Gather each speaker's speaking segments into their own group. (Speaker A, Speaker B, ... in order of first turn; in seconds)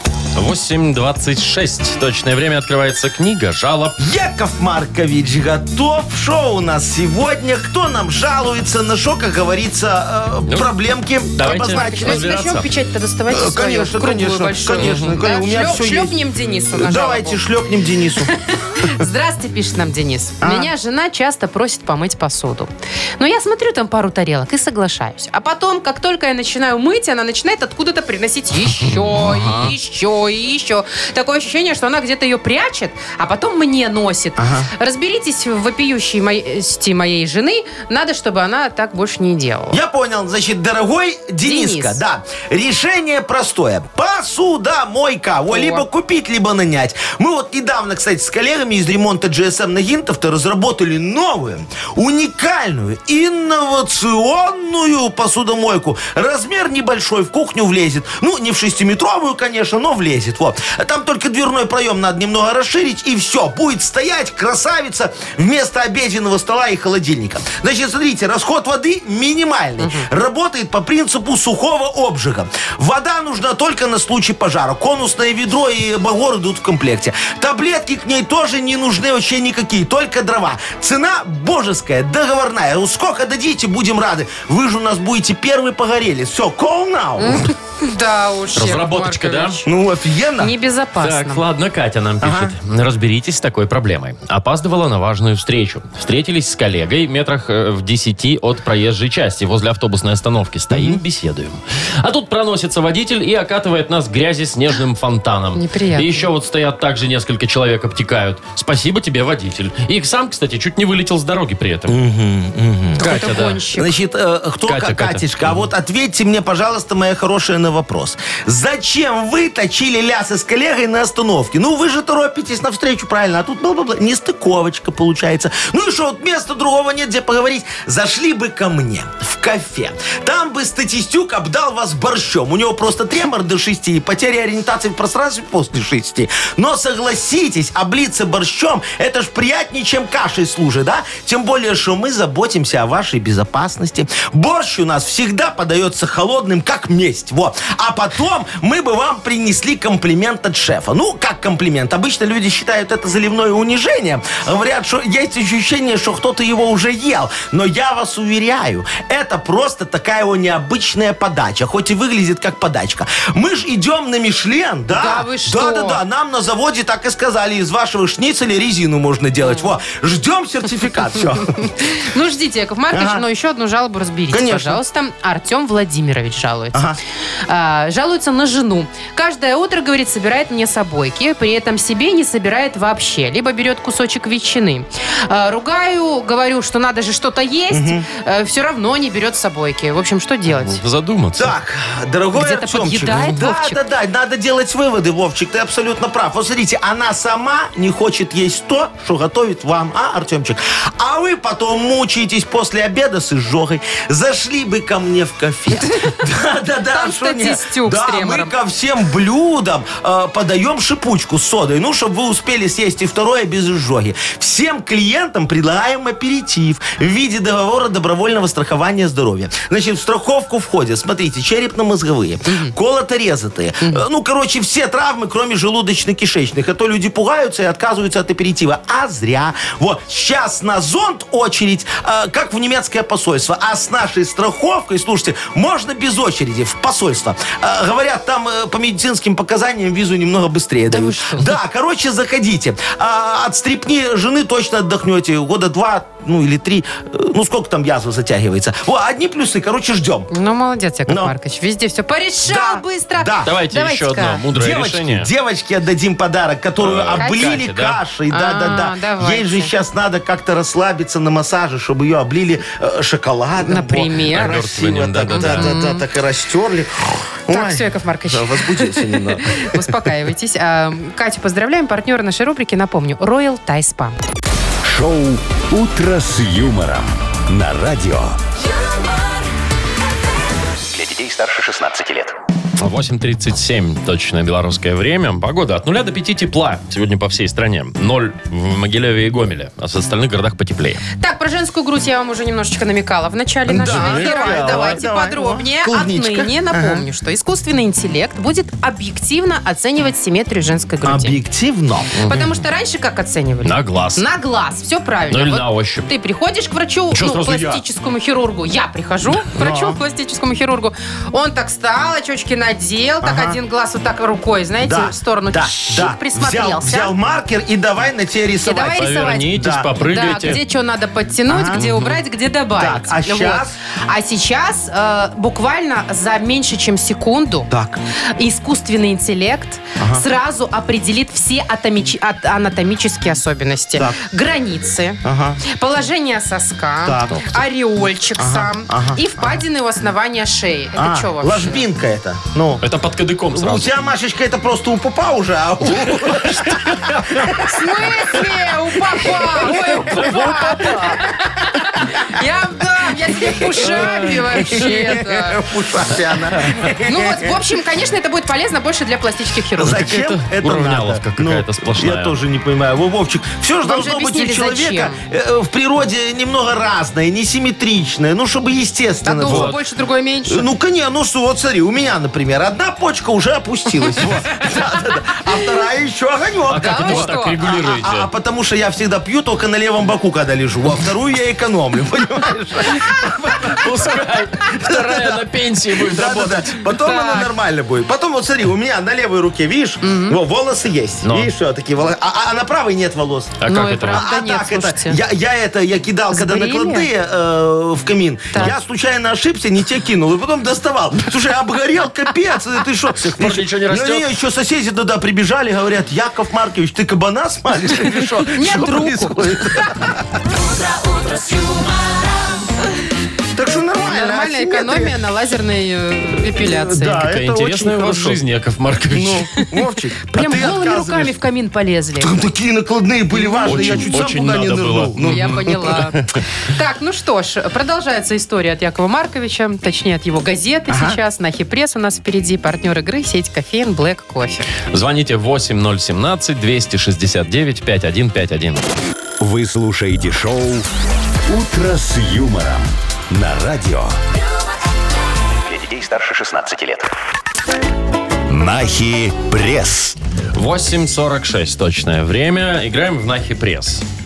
Speaker A: 0.3-4.0, 10.5-10.7, 11.3-12.7, 14.8-15.2, 88.5-89.6, 91.0-112.0, 113.0-113.6, 114.7-115.7, 190.5-191.5, 253.4-255.3, 256.8-258.0, 264.3-265.8, 282.8-291.0, 293.8-295.0, 303.6-304.2, 305.3-306.1, 307.1-307.8, 318.9-320.6, 321.7-322.2, 342.8-343.9, 346.0-347.4, 359.9-362.4, 369.4-369.8, 376.7-378.3, 383.6-386.8, 391.2-391.5, 393.6-394.2, 403.2-404.3, 417.2-419.5, 423.6-426.4, 434.9-438.8, 450.6-454.0
Speaker B: 4.0-12.4, 13.3-16.1, 16.7-18.9, 20.4-20.7, 29.0-29.7, 34.4-34.7, 39.7-87.5, 89.7-90.5, 92.2-92.5, 100.7-101.0, 111.9-171.8, 172.9-173.2, 174.3-174.8, 187.7-188.1, 191.4-250.3, 251.1-251.3, 252.5-253.5, 254.6-269.9, 293.7-297.1, 301.0-302.5, 309.6-310.0, 313.2-313.6, 314.8-319.9, 321.5-321.8, 322.8-323.7, 327.7-328.0, 330.0-330.2, 335.2-335.6, 337.1-337.4, 338.4-339.6, 341.0-342.8, 343.5-348.5, 349.1-352.3, 353.3-357.5, 359.8-369.8, 370.5-385.4, 386.0-393.6, 394.1-410.4, 413.6-415.1, 416.6-418.4, 419.1-421.4, 422.2-425.9, 430.9-431.2
Speaker C: 11.4-17.4, 18.3-39.8, 41.4-42.0, 45.5-45.9, 69.8-70.1, 87.2-89.7, 90.4-91.4, 105.6-106.3, 113.0-113.9, 164.9-166.0, 169.4-169.7, 171.8-176.8, 177.5-190.8, 192.3-193.8, 205.8-206.2, 206.9-208.5, 222.5-222.7, 240.9-241.5, 250.3-254.4, 257.2-257.6, 258.3-259.7, 263.6-264.6, 265.3-266.0, 267.5-274.2, 291.2-301.4, 302.3-317.1, 318.6-327.7, 328.4-341.8, 347.7-355.6, 357.0-360.1, 363.8-365.2, 369.2-370.7, 376.7-377.6, 386.9-387.5, 390.0-390.4, 393.7-395.2, 396.3-397.1, 408.5-409.9, 411.2-411.8, 414.0-417.3, 420.3-422.4, 423.3-424.2, 425.2-434.7
Speaker D: 274.8-278.4, 439.4-440.9, 441.5-444.2, 448.5-450.2
Speaker E: 280.9-282.3, 445.7-447.1